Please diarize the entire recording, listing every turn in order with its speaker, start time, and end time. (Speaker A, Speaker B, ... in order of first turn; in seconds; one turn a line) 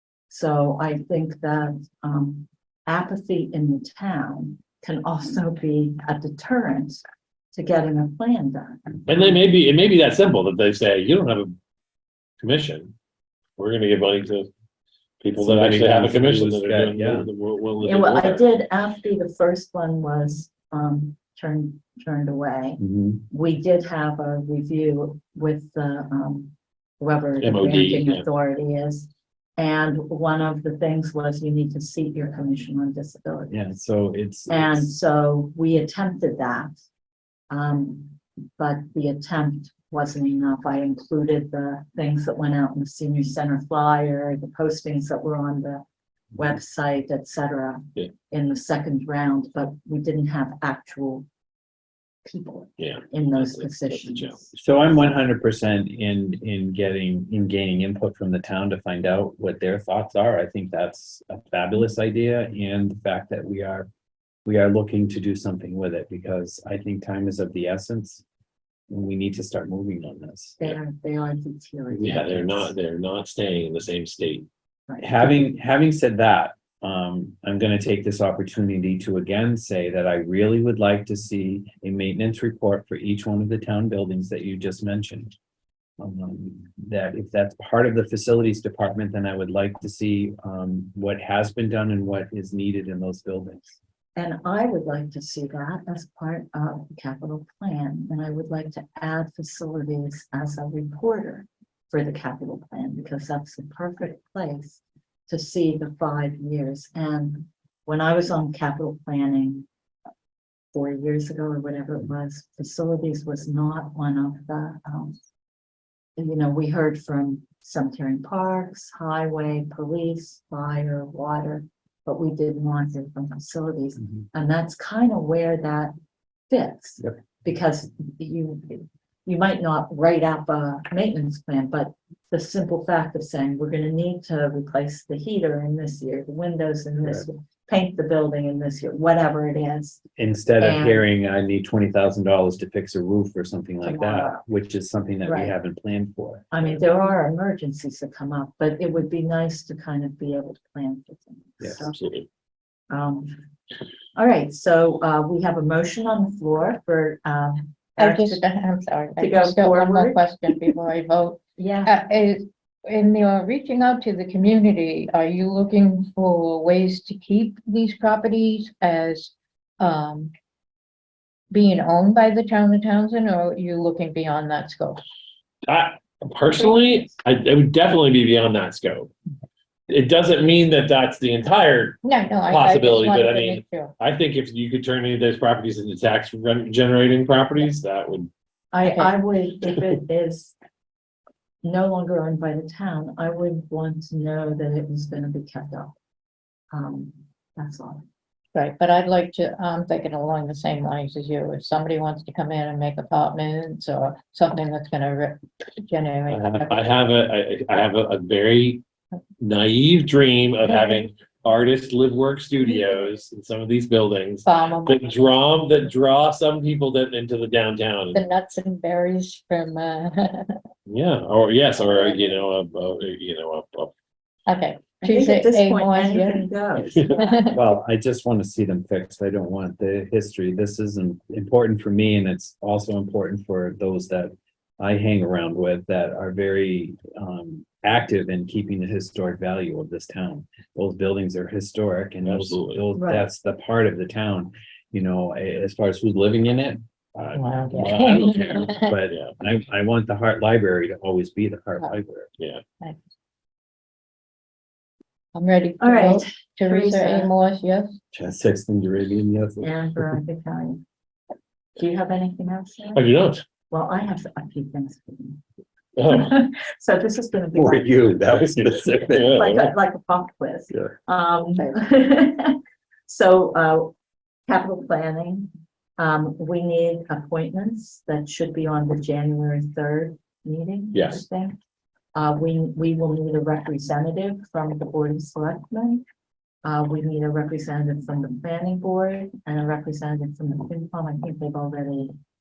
Speaker A: 0.3-7.0
Speaker A: 7.5-9.4
Speaker B: 9.1-11.5
Speaker B: 12.4-12.9
Speaker B: 13.6-14.5
Speaker B: 15.2-18.4
Speaker C: 15.3-17.3
Speaker A: 17.8-33.7
Speaker C: 22.8-23.2
Speaker B: 27.4-28.2
Speaker C: 33.5-34.9
Speaker A: 34.5-36.7
Speaker A: 37.5-45.8
Speaker A: 46.3-51.2
Speaker A: 52.2-54.5
Speaker B: 52.8-54.4
Speaker C: 54.5-63.9
Speaker C: 64.4-68.2
Speaker C: 68.9-70.6
Speaker A: 70.6-72.7
Speaker B: 71.9-74.5
Speaker A: 74.9-75.4
Speaker C: 75.0-85.3
Speaker C: 86.0-93.8
Speaker A: 94.2-109.6
Speaker A: 110.7-115.2
Speaker A: 116.2-125.9
Speaker A: 126.5-140.0
Speaker C: 140.2-146.8
Speaker A: 140.6-141.1
Speaker A: 143.8-144.4
Speaker A: 145.2-145.5
Speaker A: 146.5-152.0
Speaker C: 151.6-151.9
Speaker B: 151.9-152.2
Speaker A: 152.9-153.3
Speaker A: 154.1-158.4
Speaker D: 158.0-170.3
Speaker A: 159.2-160.7
Speaker A: 161.6-162.0
Speaker D: 171.5-175.0
Speaker B: 175.7-179.1
Speaker A: 176.5-177.1
Speaker B: 179.9-182.0
Speaker D: 182.0-183.9
Speaker B: 182.5-188.3
Speaker A: 188.7-190.5
Speaker D: 188.8-189.1
Speaker A: 191.6-195.9
Speaker A: 196.7-198.0
Speaker D: 198.5-206.8
Speaker B: 206.3-208.8
Speaker B: 209.4-218.2
Speaker D: 210.7-211.0
Speaker D: 214.4-215.0
Speaker D: 218.1-220.5
Speaker B: 220.9-223.9
Speaker D: 224.4-226.5
Speaker A: 225.0-227.4
Speaker D: 227.1-227.6
Speaker C: 227.5-246.8
Speaker B: 242.2-242.8
Speaker A: 242.9-243.3
Speaker B: 247.2-249.3
Speaker D: 247.3-249.0
Speaker C: 247.8-252.3
Speaker B: 252.4-252.6
Speaker D: 255.3-257.9
Speaker A: 255.8-257.3
Speaker C: 258.1-260.0
Speaker A: 259.6-260.8
Speaker A: 261.8-263.1
Speaker B: 262.9-263.4
Speaker A: 263.7-265.4
Speaker B: 265.9-266.3
Speaker A: 266.1-268.2
Speaker C: 267.5-269.5
Speaker B: 269.1-269.7
Speaker A: 269.2-273.9
Speaker A: 274.5-281.6
Speaker B: 280.9-281.2
Speaker A: 282.1-286.0
Speaker A: 286.6-292.1